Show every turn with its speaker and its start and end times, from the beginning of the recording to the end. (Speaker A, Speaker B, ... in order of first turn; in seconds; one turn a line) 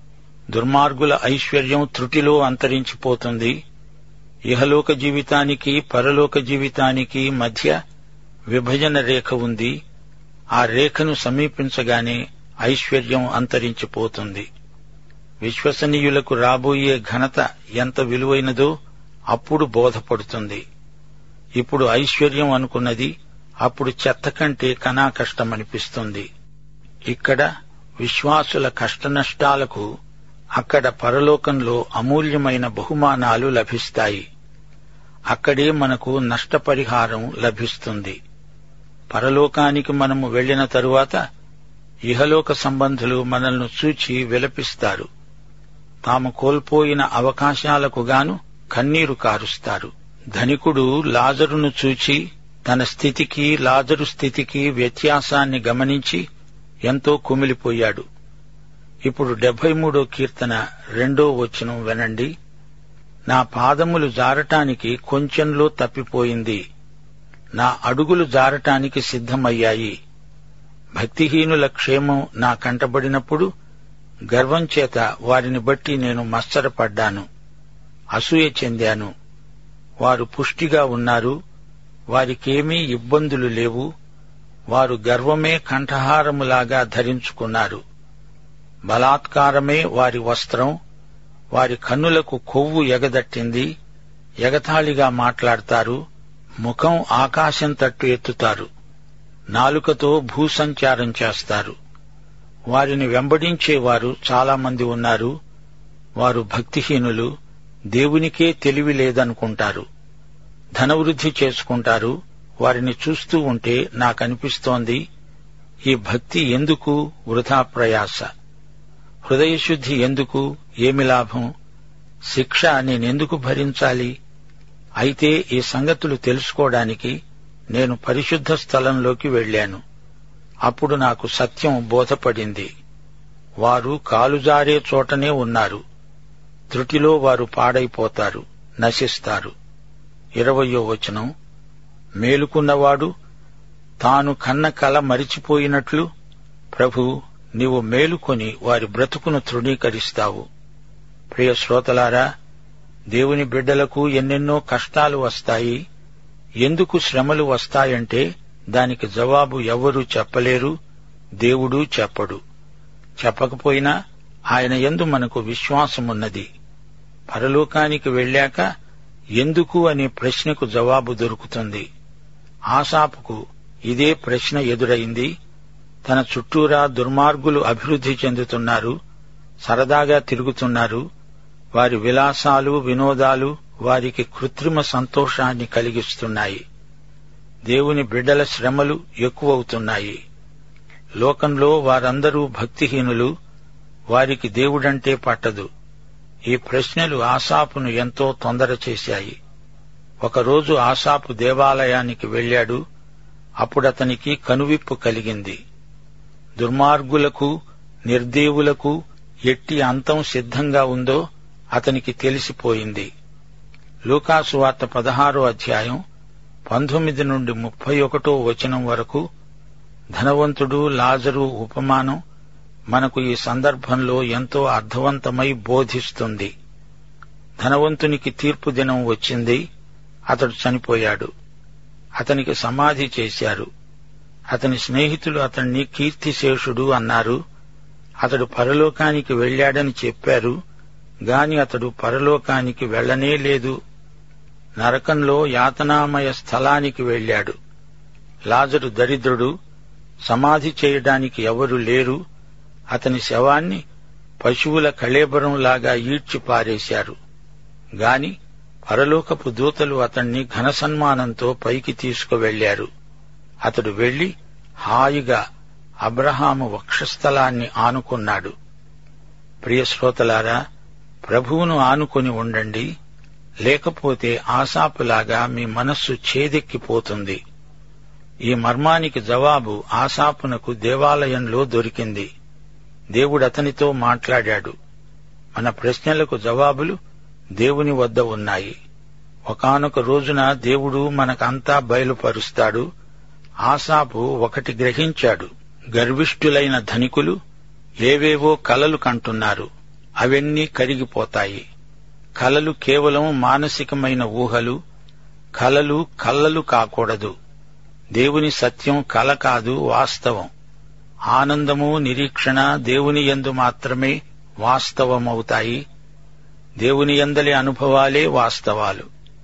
Speaker A: 0.5-3.6
Speaker A: 4.5-7.8
Speaker A: 8.5-9.8
Speaker A: 10.6-14.5
Speaker A: 15.4-18.7
Speaker A: 19.3-20.6
Speaker A: 21.6-23.1
Speaker A: 23.6-26.2
Speaker A: 27.1-27.4
Speaker A: 28.0-29.9
Speaker A: 30.6-34.2
Speaker A: 35.3-38.2
Speaker A: 39.1-41.2
Speaker A: 42.1-45.1
Speaker A: 46.0-56.2
Speaker A: 56.9-58.0
Speaker A: 59.0-62.3
Speaker A: 63.3-66.6
Speaker A: 67.6-69.9
Speaker A: 71.0-73.5
Speaker A: 74.3-77.2
Speaker A: 78.1-79.1
Speaker A: 80.0-81.4
Speaker A: 82.1-83.9
Speaker A: 84.7-87.8
Speaker A: 88.9-90.8
Speaker A: 91.5-93.7
Speaker A: 94.4-96.0
Speaker A: 96.6-98.7
Speaker A: 99.5-101.8
Speaker A: 102.7-105.3
Speaker A: 106.2-107.3
Speaker A: 107.9-109.8
Speaker A: 110.8-115.0
Speaker A: 115.8-118.3
Speaker A: 119.2-121.5
Speaker A: 122.3-124.1
Speaker A: 125.0-127.2
Speaker A: 127.7-129.8
Speaker A: 130.7-132.7
Speaker A: 133.6-135.8
Speaker A: 136.7-139.5
Speaker A: 140.4-141.3
Speaker A: 142.2-143.1
Speaker A: 144.0-146.1
Speaker A: 146.7-150.4
Speaker A: 151.3-152.2
Speaker A: 153.1-155.8
Speaker A: 156.6-160.7
Speaker A: 161.4-162.4
Speaker A: 163.2-163.9
Speaker A: 164.5-166.5
Speaker A: 167.3-168.6
Speaker A: 169.4-171.8
Speaker A: 172.7-175.3
Speaker A: 176.0-178.9
Speaker A: 179.7-181.0
Speaker A: 181.7-186.6
Speaker A: 187.7-190.2
Speaker A: 191.2-193.3
Speaker A: 194.1-195.7
Speaker A: 196.5-199.3
Speaker A: 200.2-202.8
Speaker A: 203.6-205.6
Speaker A: 206.6-207.5
Speaker A: 208.1-211.2
Speaker A: 211.8-213.1
Speaker A: 214.1-216.0
Speaker A: 216.7-219.2
Speaker A: 220.2-222.2
Speaker A: 222.9-226.5
Speaker A: 227.6-229.6
Speaker A: 230.3-231.3
Speaker A: 232.2-233.7
Speaker A: 234.5-237.4
Speaker A: 238.2-240.6
Speaker A: 241.3-243.8
Speaker A: 244.8-247.5
Speaker A: 248.5-249.5
Speaker A: 250.3-252.2
Speaker A: 252.9-253.8
Speaker A: 254.4-257.1
Speaker A: 258.0-262.9
Speaker A: 263.6-264.3
Speaker A: 264.8-265.4
Speaker A: 266.0-268.5
Speaker A: 269.6-270.6
Speaker A: 271.2-272.9
Speaker A: 273.6-277.4
Speaker A: 278.5-282.3
Speaker A: 283.1-284.7
Speaker A: 285.6-287.0
Speaker A: 287.6-288.7
Speaker A: 289.5-292.9
Speaker A: 293.6-297.4
Speaker A: 298.0-299.7
Speaker A: 300.2-301.6
Speaker A: 302.4-304.8
Speaker A: 305.6-307.3
Speaker A: 308.1-310.5
Speaker A: 311.3-315.8
Speaker A: 316.8-319.1